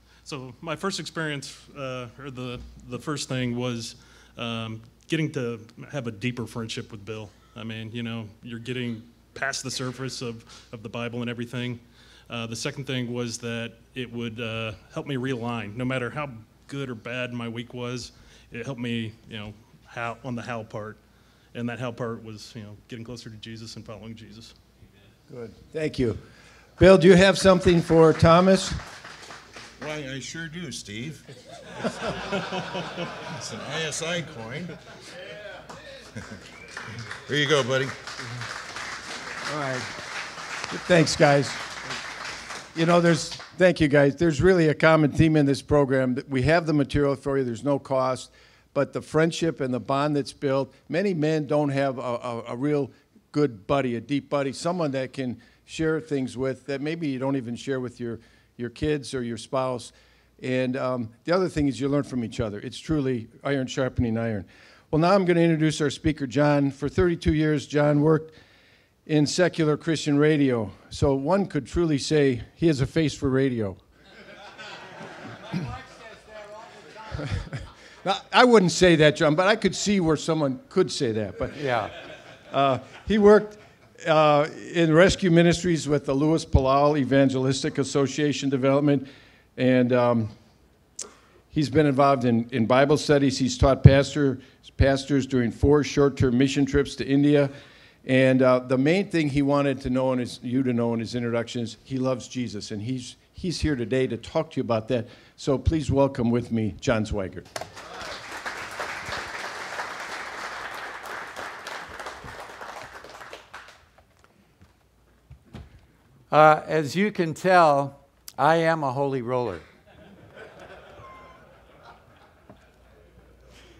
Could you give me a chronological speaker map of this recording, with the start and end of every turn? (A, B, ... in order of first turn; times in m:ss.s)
0:00.2-0:21.0 A
0:21.5-0:24.5 A
0:25.3-0:26.2 B
0:26.8-0:28.8 B
0:29.8-0:31.3 C
0:31.8-0:32.6 C
0:33.2-0:34.8 C
0:37.2-0:38.0 C
0:39.4-0:40.0 B
0:40.7-0:41.8 B
0:42.7-1:08.3 B
1:09.0-1:13.8 B
1:17.1-1:21.9 B
1:21.6-1:21.9 D
1:22.5-1:30.3 B
1:31.5-1:37.5 B
1:38.0-1:47.5 B
1:56.3-1:59.6 D